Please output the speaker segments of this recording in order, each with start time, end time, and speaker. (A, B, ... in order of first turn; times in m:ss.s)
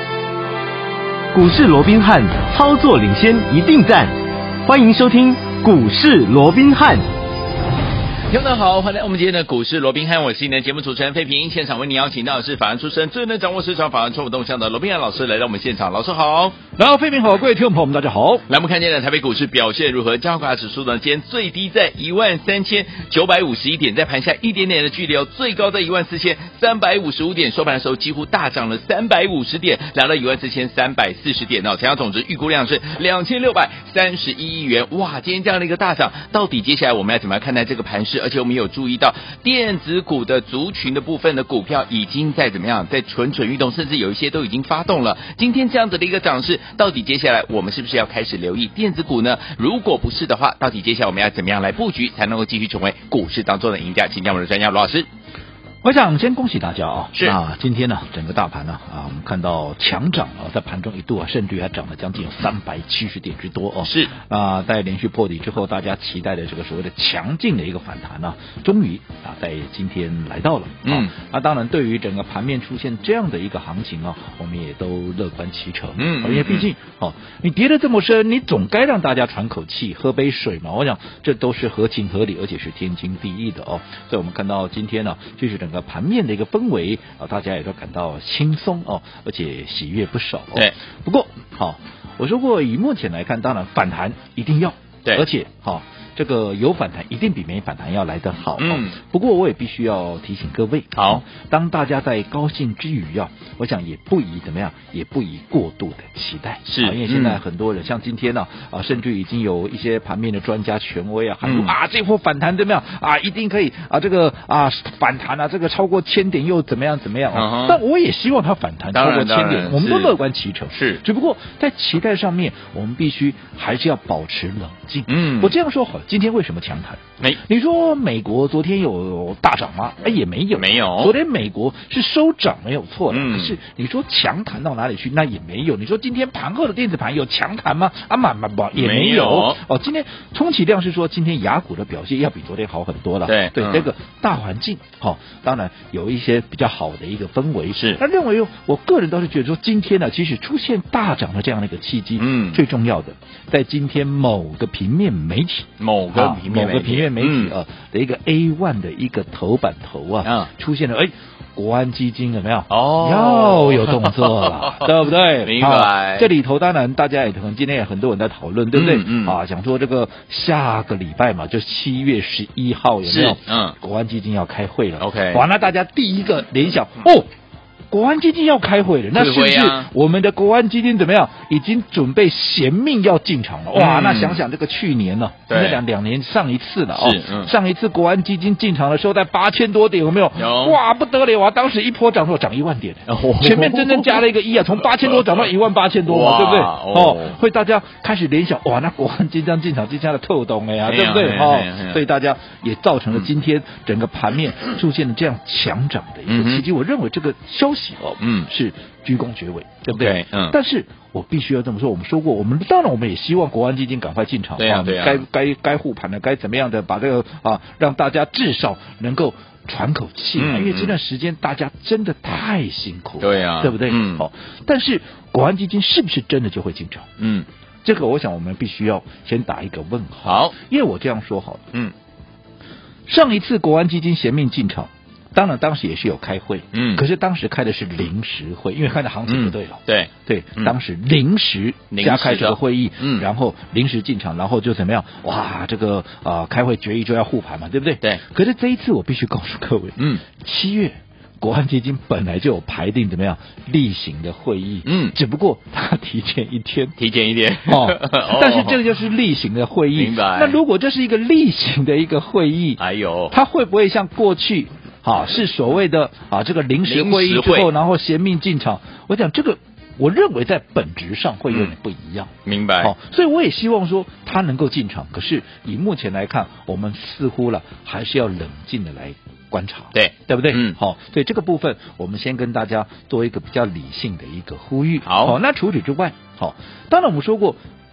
0:01.3-0:07.0 A
0:08.3-0:16.6 B
0:16.8-0:18.4 C
0:18.5-0:55.1 B
0:55.8-2:57.3 C
1:03.8-1:04.1 B
1:10.8-1:11.1 B
1:16.0-1:16.7 B
1:38.6-1:39.0 B
1:40.9-1:41.2 B
1:46.7-1:47.4 B
1:51.4-1:51.7 B
1:57.3-1:57.8 B
1:58.9-2:00.1 B
2:00.7-2:01.0 B
2:05.1-2:05.5 B
2:10.5-2:11.1 B
2:13.1-2:13.6 B
2:18.7-2:19.6 B
2:23.2-2:23.9 B
2:27.7-2:28.0 B
2:32.2-2:32.6 B
2:35.8-2:37.5 B
2:40.2-2:40.5 B
2:42.7-2:46.3 B
2:48.7-2:49.4 B
2:53.0-2:53.8 B
2:55.0-2:55.4 B
2:57.9-3:47.1 C
2:59.1-2:59.9 B
3:03.7-3:04.4 B
3:05.5-3:05.8 B
3:06.9-3:07.5 B
3:10.4-3:10.8 B
3:13.1-3:14.2 B
3:15.0-3:15.5 B
3:16.0-3:17.4 B
3:20.8-3:22.0 B
3:26.3-3:26.6 B
3:28.2-3:28.5 B
3:29.9-3:30.6 B
3:34.6-3:35.2 B
3:40.4-3:41.0 B
3:43.2-3:44.3 B
3:47.2-3:47.4 B
3:47.8-3:51.6 C
3:50.2-3:50.5 B
3:53.1-4:17.0 C
3:56.7-3:57.0 B
3:59.3-4:00.7 B
4:01.9-4:03.2 B
4:10.0-4:10.2 B
4:14.8-4:15.2 B
4:17.0-4:18.8 B
4:17.6-4:22.8 C
4:19.9-4:20.6 B
4:22.8-4:23.3 B
4:23.3-4:47.6 C
4:26.8-4:27.7 B
4:32.4-4:32.9 B
4:39.9-4:40.8 B
4:45.0-4:45.4 B